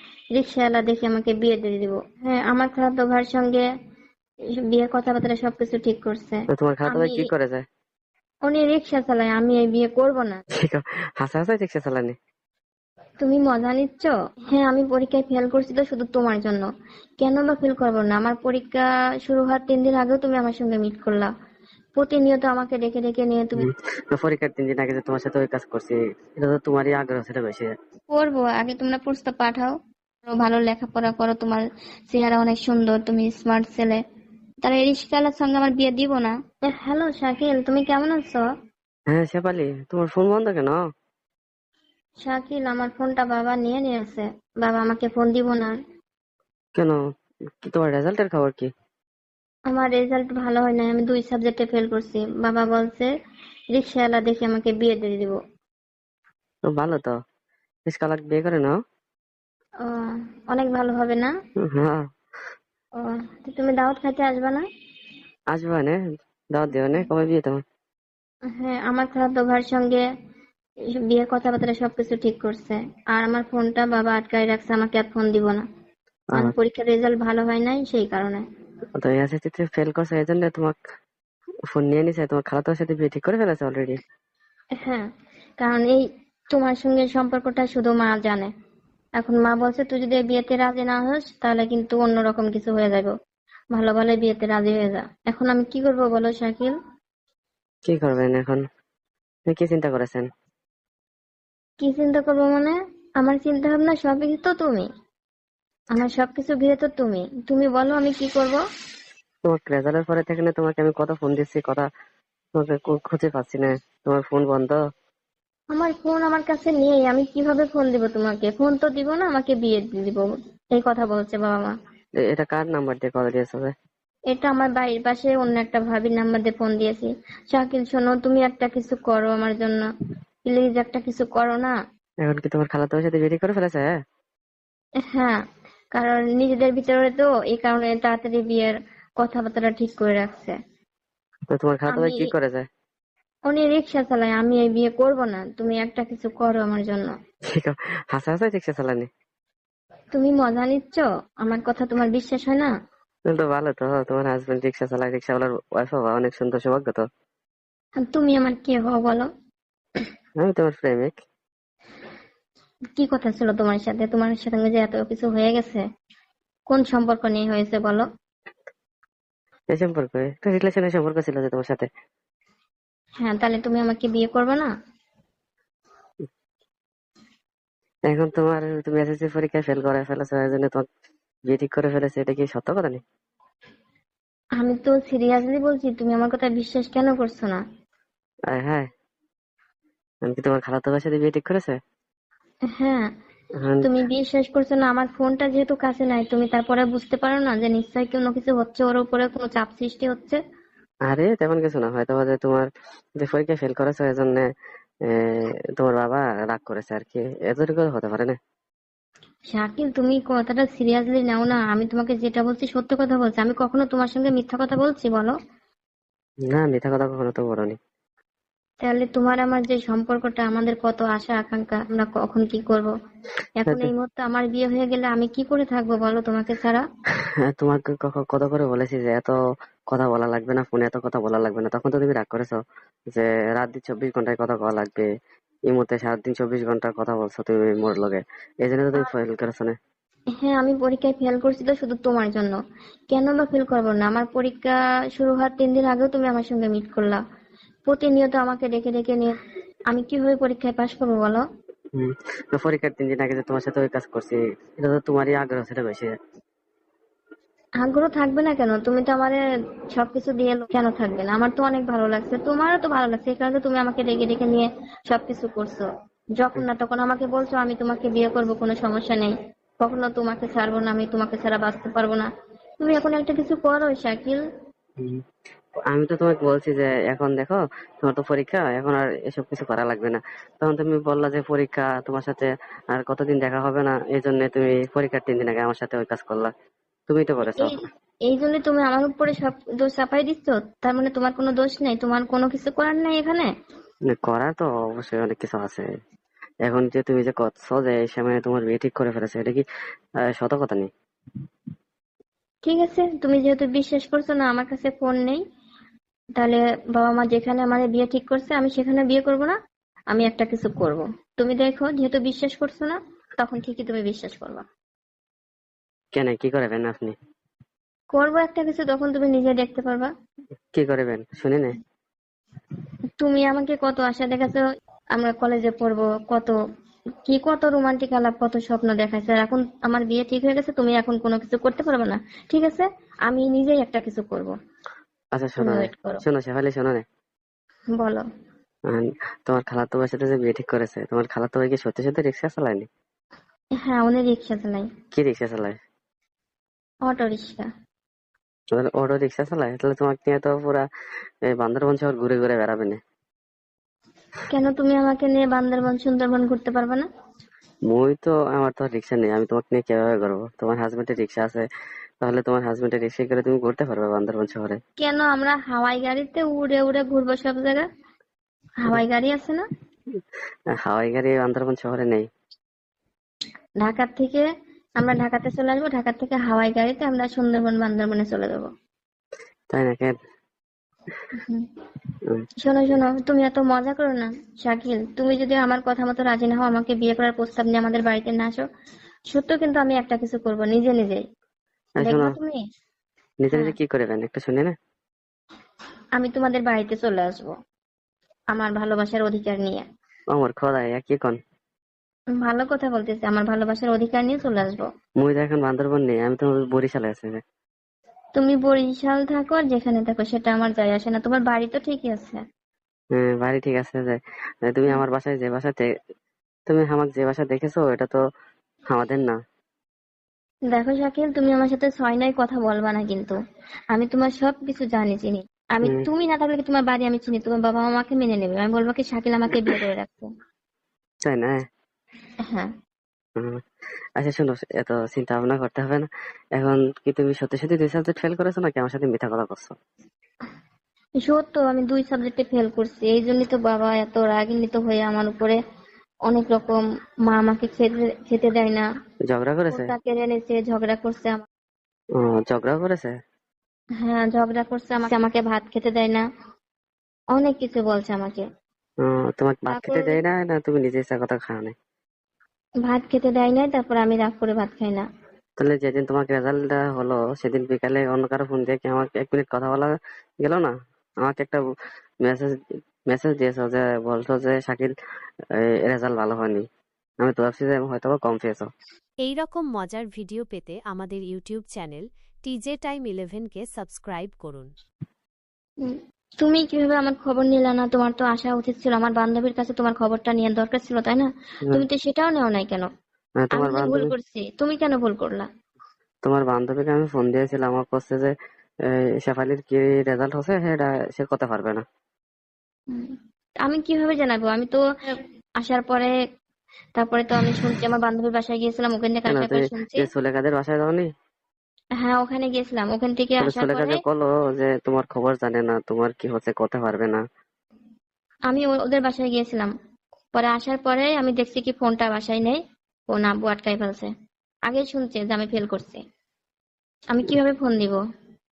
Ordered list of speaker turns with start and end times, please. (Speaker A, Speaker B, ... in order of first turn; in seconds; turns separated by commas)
Speaker A: 0.4-3.6, Speaker A: 4.7-7.3, Speaker B: 6.5-7.6, Speaker A: 8.5-10.4, Speaker B: 10.6-12.2, Speaker A: 13.2-16.6, Speaker A: 17.2-21.3, Speaker A: 22.0-23.7, Speaker B: 23.6-27.7, Speaker A: 28.1-29.8, Speaker A: 30.3-34.0, Speaker A: 34.6-38.5, Speaker B: 39.1-40.8, Speaker A: 42.2-45.8, Speaker B: 47.6-48.7, Speaker A: 49.7-53.1, Speaker A: 53.7-55.4, Speaker B: 56.7-57.2, Speaker B: 57.9-58.8, Speaker A: 59.8-61.3, Speaker B: 61.6-62.0, Speaker A: 63.0-64.7, Speaker B: 65.5-66.0, Speaker B: 66.5-67.6, Speaker A: 68.5-70.0, Speaker A: 71.1-75.6, Speaker A: 76.3-78.4, Speaker B: 79.0-80.8, Speaker B: 81.7-84.0, Speaker A: 84.8-85.0, Speaker A: 85.6-88.5, Speaker A: 89.2-93.1, Speaker A: 93.7-96.8, Speaker B: 97.9-98.6, Speaker B: 99.5-100.3, Speaker A: 101.8-104.9, Speaker A: 105.9-108.6, Speaker B: 109.5-111.9, Speaker B: 112.6-114.8, Speaker A: 115.7-121.8, Speaker B: 122.2-123.7, Speaker A: 124.3-129.8, Speaker A: 130.5-131.7, Speaker B: 132.2-133.9, Speaker A: 135.1-135.4, Speaker A: 135.9-140.6, Speaker B: 141.5-142.6, Speaker A: 141.9-142.2, Speaker A: 143.5-147.1, Speaker B: 147.5-149.1, Speaker A: 150.1-152.7, Speaker B: 153.3-157.0, Speaker A: 158.1-159.3, Speaker B: 160.4-161.1, Speaker A: 163.0-165.8, Speaker A: 166.7-168.1, Speaker B: 169.7-171.9, Speaker A: 173.2-174.7, Speaker B: 178.1-180.9, Speaker B: 181.5-183.0, Speaker A: 184.6-187.6, Speaker B: 188.5-188.9, Speaker B: 190.3-191.8, Speaker A: 192.8-193.1, Speaker B: 193.6-193.9, Speaker A: 193.8-200.4, Speaker B: 201.1-202.7, Speaker B: 203.2-204.5, Speaker B: 205.1-208.4, Speaker A: 209.5-215.3, Speaker B: 216.5-217.8, Speaker A: 218.8-222.9, Speaker A: 223.6-226.8, Speaker B: 227.5-229.3, Speaker B: 229.9-232.6, Speaker B: 233.1-235.1, Speaker B: 235.7-239.8, Speaker A: 240.4-242.6, Speaker A: 243.1-247.2, Speaker A: 247.9-249.4, Speaker A: 249.9-251.4, Speaker B: 252.0-256.1, Speaker A: 257.8-259.4, Speaker A: 259.9-265.9, Speaker A: 266.4-272.3, Speaker A: 272.8-274.4, Speaker B: 275.9-286.5, Speaker B: 287.1-287.8, Speaker A: 287.6-293.5, Speaker B: 294.1-295.9, Speaker B: 296.6-299.6, Speaker B: 300.3-300.9, Speaker A: 302.6-305.4, Speaker A: 306.4-309.6, Speaker A: 310.1-314.6, Speaker B: 316.1-317.2, Speaker A: 318.1-320.1, Speaker B: 320.8-321.7, Speaker A: 323.2-324.6, Speaker A: 325.1-326.6, Speaker A: 327.3-334.5, Speaker B: 335.4-337.0, Speaker A: 335.6-336.2, Speaker A: 338.0-338.2, Speaker B: 338.9-342.9, Speaker A: 343.8-344.9, Speaker B: 345.1-345.8, Speaker A: 347.1-347.7, Speaker B: 348.7-350.9, Speaker B: 351.5-353.0, Speaker A: 354.5-357.1, Speaker B: 357.9-361.7, Speaker B: 362.2-364.8, Speaker A: 365.0-367.9, Speaker A: 368.8-369.7, Speaker B: 370.8-372.3, Speaker A: 373.8-374.5, Speaker A: 375.0-378.7, Speaker B: 379.7-380.1, Speaker A: 381.3-381.6, Speaker A: 382.6-388.6, Speaker A: 389.3-391.2, Speaker B: 392.0-392.3, Speaker A: 392.0-392.6, Speaker B: 393.4-394.7, Speaker A: 396.2-397.5, Speaker A: 398.5-399.9, Speaker B: 400.3-401.4, Speaker A: 402.4-404.9, Speaker B: 405.2-407.4, Speaker A: 408.4-412.4, Speaker B: 413.1-415.9, Speaker B: 416.7-418.2, Speaker B: 418.9-419.4, Speaker A: 420.7-423.4, Speaker A: 423.9-430.3, Speaker B: 431.3-431.6, Speaker B: 434.2-439.8, Speaker A: 441.2-445.6, Speaker A: 446.3-448.9, Speaker B: 449.3-449.9, Speaker A: 449.7-451.5, Speaker B: 452.2-453.1, Speaker A: 454.0-456.2, Speaker A: 457.4-458.5, Speaker B: 459.0-461.7, Speaker A: 459.7-460.2, Speaker A: 462.9-465.1, Speaker B: 465.6-470.7, Speaker B: 471.2-471.6, Speaker B: 472.2-472.5, Speaker B: 473.1-474.9, Speaker B: 475.6-476.6, Speaker B: 477.2-478.7, Speaker C: 479.2-484.7, Speaker A: 485.8-492.9, Speaker B: 493.4-494.1, Speaker A: 493.5-495.5, Speaker B: 496.2-498.3, Speaker B: 498.9-501.8, Speaker A: 503.7-504.8, Speaker A: 505.6-506.1, Speaker A: 507.0-510.1, Speaker B: 509.3-511.1, Speaker A: 512.0-514.0, Speaker B: 513.4-517.2, Speaker A: 518.5-519.7, Speaker A: 520.4-524.1, Speaker A: 524.7-526.0, Speaker A: 527.1-528.0